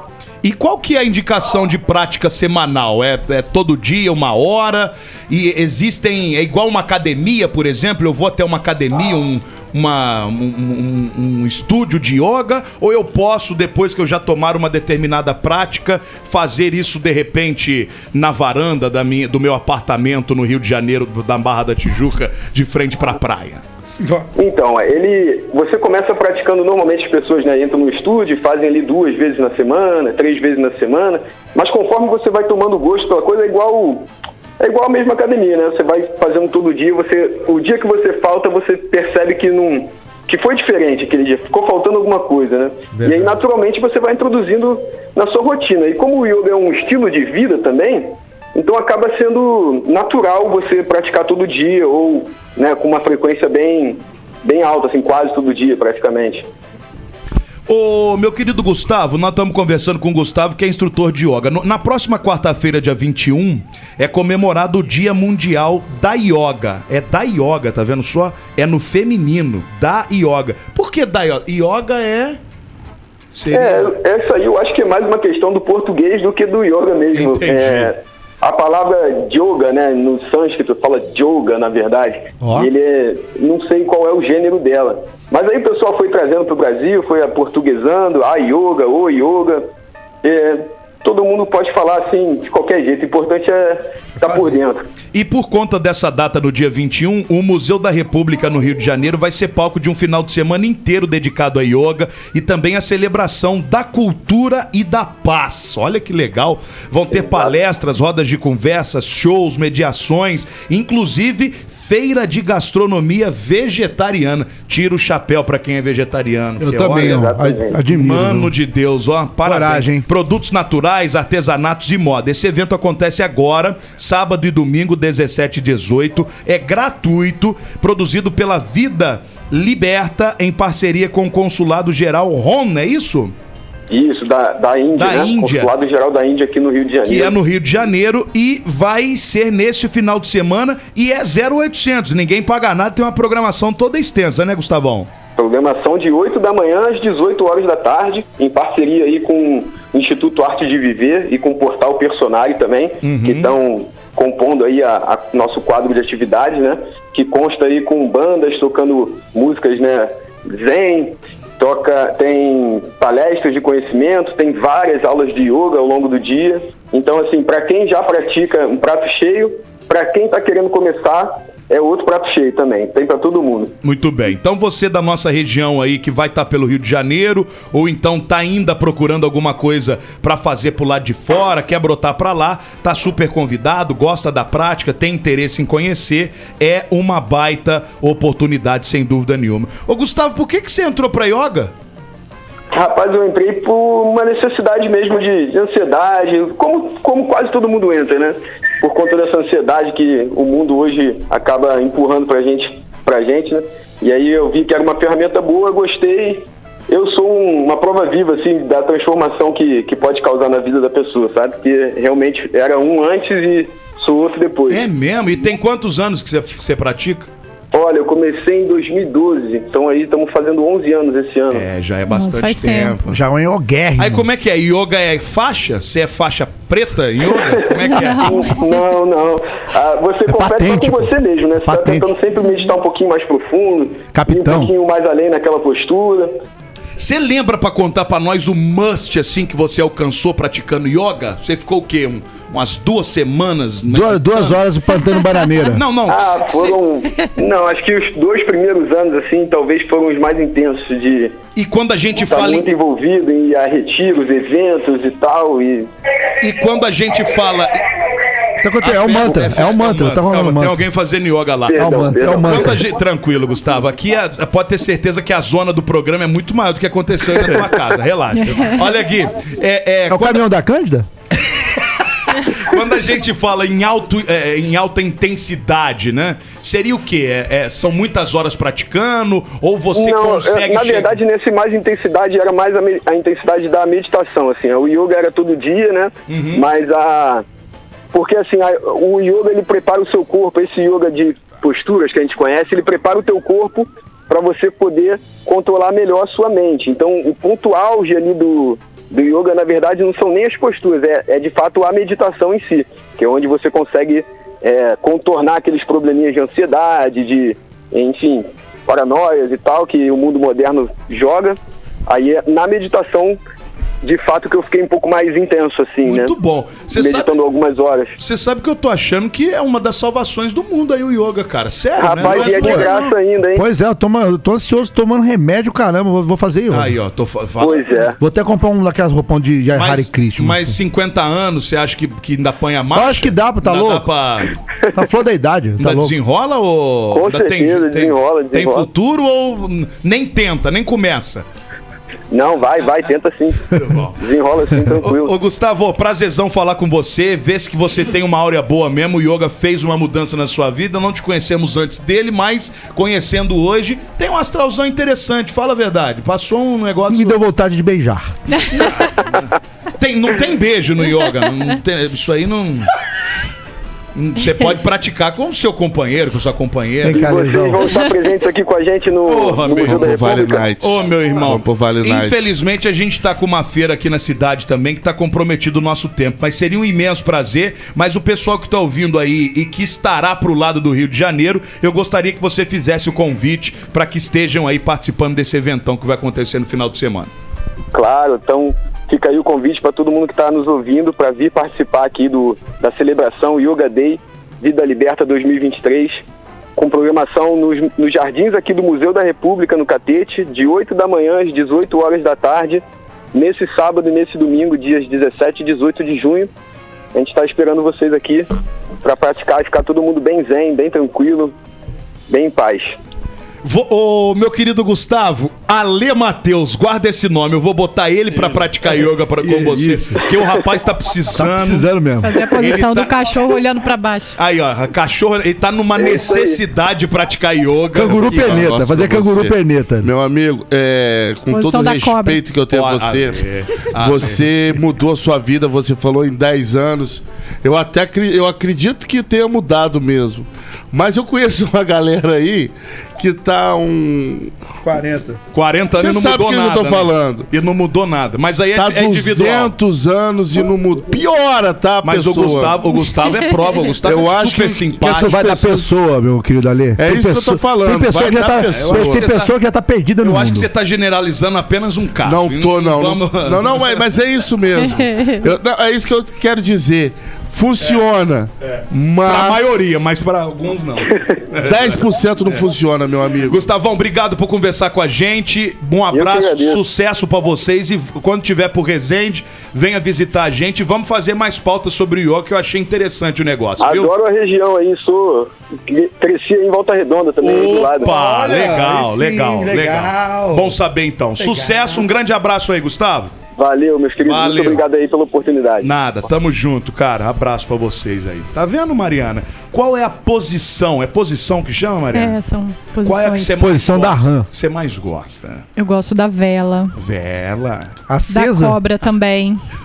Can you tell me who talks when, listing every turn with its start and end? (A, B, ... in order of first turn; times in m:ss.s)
0:00.4-0:23.6 A
0:24.0-0:24.3 B
0:24.4-0:56.5 C
0:43.0-0:43.3 B
0:57.7-1:12.4 A
1:13.3-1:13.9 A
1:13.5-1:29.6 C
1:17.1-1:17.9 A
1:22.4-1:22.7 B
1:30.2-1:34.8 C
1:34.2-1:34.5 B
1:35.1-1:57.3 A
1:47.1-1:47.5 C
1:56.6-1:58.5 B
1:56.9-1:57.8 C
1:57.9-2:13.3 A
1:59.4-2:00.1 B
2:13.9-2:17.4 C
2:15.0-2:15.7 A
2:17.0-2:25.1 A
2:25.4-2:53.7 C
2:33.0-2:33.5 A
2:53.8-3:11.7 A
3:12.7-3:34.8 C
3:34.7-3:37.3 A
3:37.7-3:41.7 C
3:41.5-3:43.2 A
3:42.1-3:43.0 D
3:43.1-3:44.3 B
3:44.0-3:48.3 A
3:47.4-3:56.3 C
3:47.8-3:48.8 D
3:50.3-3:51.1 B
3:51.6-3:52.1 B
3:54.1-3:54.7 B
3:57.0-4:04.6 A
4:03.9-4:05.8 B
4:05.7-4:06.8 A
4:06.1-4:11.4 C
4:11.6-4:12.7 A
4:12.2-4:15.9 C
4:16.4-4:17.8 A
4:18.6-4:20.8 B
4:18.8-4:21.8 A
4:21.7-4:22.7 C
4:21.7-4:22.8 B
4:22.4-4:30.4 A
4:30.1-4:31.1 B
4:32.5-4:41.2 A
4:39.9-4:47.4 C
4:46.3-4:46.7 A
4:48.1-5:13.4 C
5:14.0-5:16.4 C
5:16.0-5:17.4 A
5:16.9-5:18.2 C
5:18.2-5:23.1 A
5:22.0-5:23.7 C
5:22.2-5:22.9 B
5:23.6-5:27.0 B
5:26.7-5:27.8 A
5:27.6-5:28.2 C
5:28.2-5:30.8 B
5:29.7-5:34.6 A
5:32.9-5:34.1 B
5:34.9-5:36.2 B
5:35.8-5:41.4 A
5:37.1-5:38.9 C
5:42.3-5:45.3 C
5:43.7-5:44.2 A
5:44.9-5:57.4 A
5:57.1-5:58.3 B
5:58.7-6:02.9 A
6:04.2-6:07.3 A
6:07.0-6:07.9 B
6:07.1-6:10.7 C
6:09.3-6:27.3 A
6:09.8-6:12.6 E
6:27.9-6:36.2 C
6:36.8-6:42.8 C
6:43.3-6:46.5 C
6:47.1-6:48.5 C
6:49.0-6:51.5 C
6:52.3-6:53.0 C
6:53.6-7:01.9 A
6:59.4-7:00.2 B
7:01.3-7:02.4 B
7:02.2-7:04.4 D
7:02.5-7:03.6 A
7:04.4-7:08.7 A
7:06.0-7:06.6 C
7:07.9-7:10.1 B
7:08.1-7:24.5 E
7:11.5-7:12.4 D
7:12.7-7:14.8 A
7:24.8-7:25.4 B
7:25.5-7:29.8 A
7:25.9-7:27.5 E
7:28.8-7:32.9 E
7:32.0-7:35.5 A
7:34.0-7:35.9 E
7:35.1-7:40.7 B
7:37.0-7:39.4 E
7:38.7-7:39.5 A
7:40.2-7:44.1 A
7:42.2-7:50.0 E
7:44.7-7:45.5 D
7:47.8-7:48.0 A
7:48.6-7:52.7 A
7:51.6-7:53.7 E
7:53.5-8:04.1 A
7:56.1-7:56.8 C
8:03.8-8:08.1 C
8:07.4-8:13.3 A
8:08.0-8:10.8 B
8:11.4-8:12.1 B
8:13.6-8:15.9 C
8:14.2-8:14.8 A
8:15.8-8:22.4 A
8:22.1-8:23.6 D
8:23.0-8:25.7 A
8:23.6-8:24.5 B
8:25.8-8:27.0 D
8:27.0-8:28.0 A
8:28.1-8:28.8 B
8:28.3-8:29.6 D